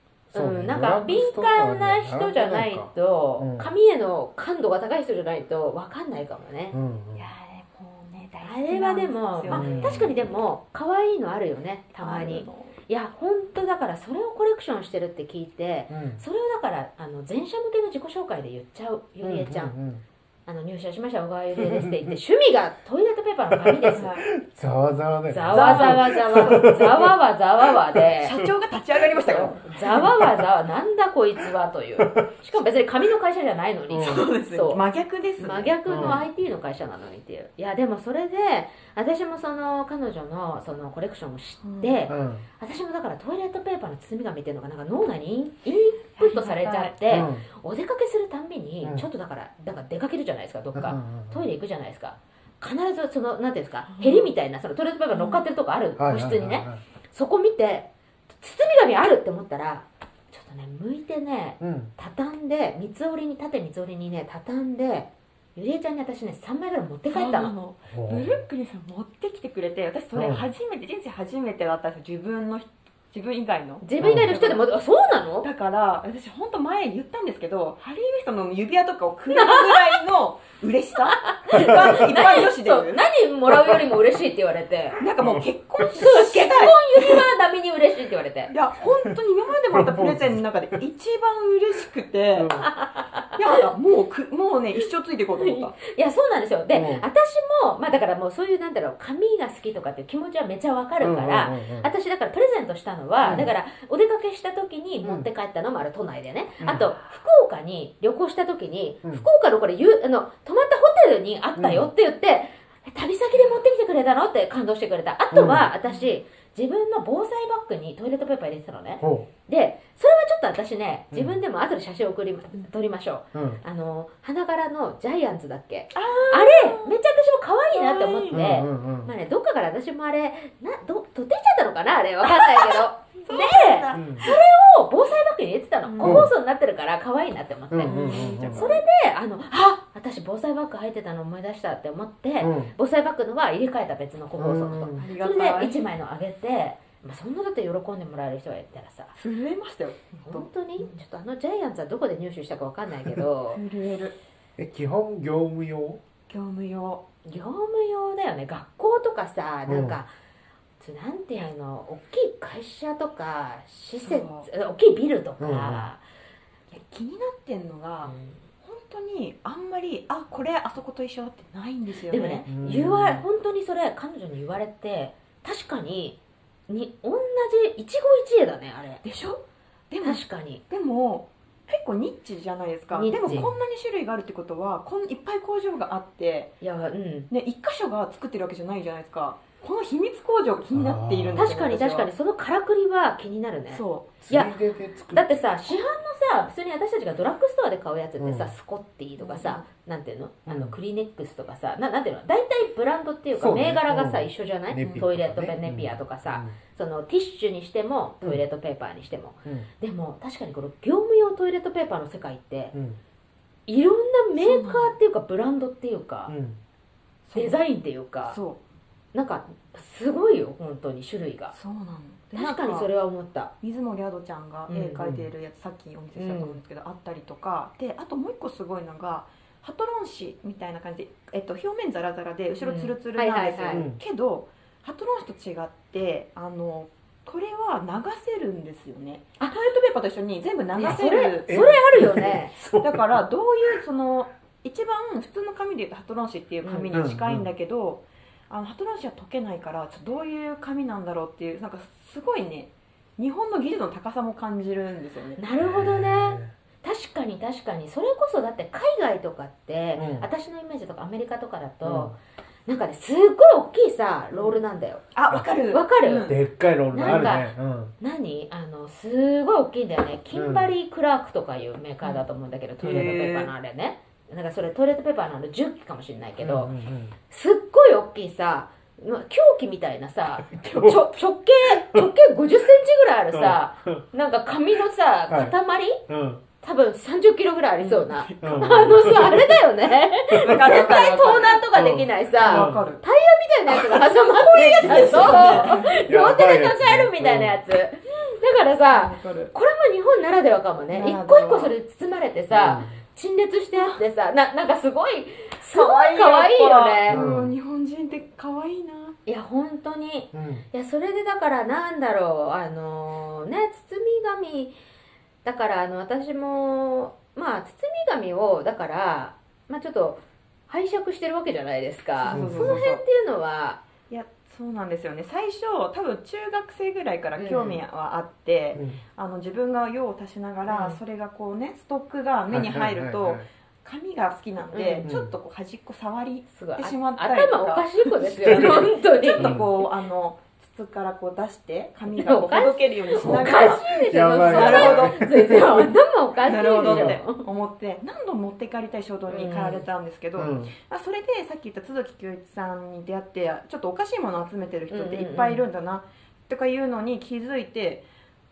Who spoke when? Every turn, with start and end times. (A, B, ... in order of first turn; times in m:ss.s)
0:00.3-0:03.7 A
0:00.3-0:06.8 B
0:06.7-0:07.3 A
0:07.1-0:10.2 C
0:08.4-0:19.7 B
0:09.5-0:10.1 A
0:12.0-0:12.8 C
0:15.9-0:16.2 A
0:19.2-0:20.0 A
0:20.5-0:24.1 B
0:21.6-0:22.1 A
0:23.5-0:27.1 A
0:24.0-0:24.2 C
0:25.3-0:28.4 B
0:25.5-0:26.8 C
0:27.9-0:28.5 A
0:28.2-0:30.1 C
0:29.3-0:34.8 B
0:29.8-0:30.4 A
0:33.9-0:36.2 C
0:35.4-1:07.5 B
0:35.9-0:36.2 A
0:41.6-0:42.0 C
0:42.1-0:42.4 A
0:46.2-0:47.0 C
0:47.1-0:47.4 A
0:50.7-0:51.4 A
0:53.9-0:54.3 C
0:55.1-0:55.4 C
0:56.0-0:56.8 A
1:01.6-1:01.9 A
1:07.1-1:14.6 C
1:07.9-1:08.4 A
1:10.1-1:10.4 A
1:13.8-1:15.5 B
1:14.0-1:14.3 A
1:15.4-1:23.1 C
1:19.3-1:20.0 B
1:21.1-1:25.0 B
1:25.0-1:27.3 C
1:25.8-1:28.5 B
1:28.5-1:32.5 C
1:29.7-1:30.4 A
1:32.4-1:32.7 A
1:32.6-1:33.4 B
1:33.4-1:35.8 C
1:35.4-2:29.1 B
1:36.7-1:37.0 A
1:41.0-1:41.9 A
1:43.2-1:43.5 A
1:45.0-1:45.3 A
1:46.6-1:46.9 A
1:51.6-1:51.9 A
1:55.3-1:55.7 A
1:55.8-1:56.1 C
1:59.0-1:59.3 A
2:01.1-2:01.4 A
2:03.3-2:03.6 A
2:05.9-2:06.9 C
2:07.7-2:08.4 C
2:08.3-2:09.1 A
2:12.2-2:14.4 C
2:13.9-2:14.3 A
2:15.8-2:16.3 C
2:16.0-2:16.3 A
2:17.7-2:18.7 A
2:17.8-2:18.8 C
2:22.4-2:22.7 A
2:24.4-2:25.0 A
2:25.0-2:25.8 C
2:29.2-2:31.0 C
2:30.2-2:33.6 B
2:33.5-2:34.2 C
2:34.6-2:36.0 A
2:36.3-2:37.0 C
2:37.2-2:40.1 B
2:39.7-2:40.0 A
2:40.8-2:46.0 B
2:44.0-2:44.5 C
2:45.4-2:45.9 A
2:46.7-2:52.4 C
2:48.1-2:48.3 B
2:52.1-2:59.0 B
2:52.5-2:53.2 A
2:59.0-3:06.6 C
3:00.0-3:00.6 B
3:02.9-3:03.5 B
3:06.6-3:07.3 B
3:07.3-3:12.1 C
3:10.7-3:11.6 A
3:11.4-3:14.6 B
3:13.7-3:14.1 C
3:14.2-3:15.5 A
3:15.1-3:32.7 B
3:18.2-3:18.5 A
3:19.2-3:19.6 C
3:20.5-3:20.8 A
3:23.4-3:26.6 A
3:24.8-3:25.0 C
3:32.7-3:33.0 A
3:33.7-3:36.3 B
3:34.4-3:35.0 C
3:36.3-3:36.6 A
3:37.2-3:37.6 C
3:37.3-3:38.4 B
3:38.3-3:38.6 C
3:39.1-3:41.5 B
3:41.5-3:42.9 C
3:42.3-3:43.5 B
3:43.6-4:01.7 C
3:44.7-3:45.0 B
3:45.0-3:45.3 A
3:46.1-3:46.6 B
3:52.6-3:53.8 B
3:53.7-3:54.0 A
4:00.8-4:02.6 B
4:01.5-4:03.2 A
4:02.8-4:15.4 C
4:06.6-4:06.9 B
4:06.9-4:07.5 A
4:15.4-4:25.0 B
4:15.6-4:16.5 A
4:20.0-4:20.3 A
4:21.8-4:22.1 A
4:24.3-4:24.6 C
4:25.1-4:26.4 C
4:25.7-4:26.4 B
4:26.2-4:27.9 A
4:26.9-4:36.7 B
4:27.0-4:27.4 C
4:30.3-4:30.7 A
4:32.8-4:33.5 C
4:36.4-4:37.1 A
4:37.3-4:46.0 B
4:40.5-4:41.0 A
4:41.7-4:42.1 A
4:43.3-4:44.0 A
4:45.3-4:45.5 A
4:46.1-4:46.4 A
4:46.6-5:07.2 B
4:47.8-4:49.1 C
4:48.4-4:49.6 A
4:50.3-4:50.9 A
4:50.4-4:51.6 C
4:51.7-4:52.9 A
4:52.4-4:53.0 C
4:53.7-4:56.0 C
4:55.1-4:57.6 A
4:58.9-4:59.5 C
5:00.9-5:01.7 C
5:02.5-5:03.0 A
5:03.7-5:04.0 C
5:05.6-5:09.2 C
5:07.1-5:07.5 A
5:09.2-5:14.7 B
5:10.3-5:10.6 A
5:15.4-5:23.8 B
5:22.2-5:23.0 C
5:22.3-5:22.8 A
5:24.1-5:45.6 C
5:27.4-5:27.8 B
5:28.7-5:29.0 A
5:30.7-5:31.0 B
5:32.5-5:33.4 A
5:34.7-5:35.0 B
5:35.0-5:35.3 A
5:36.5-5:39.6 B
5:38.5-5:38.8 A
5:39.4-5:39.7 A
5:42.1-5:47.4 B
5:43.2-5:45.9 A
5:46.4-5:58.0 C
5:46.8-5:47.2 A
5:49.3-5:49.8 B
5:50.4-5:50.7 A
5:54.9-5:55.6 B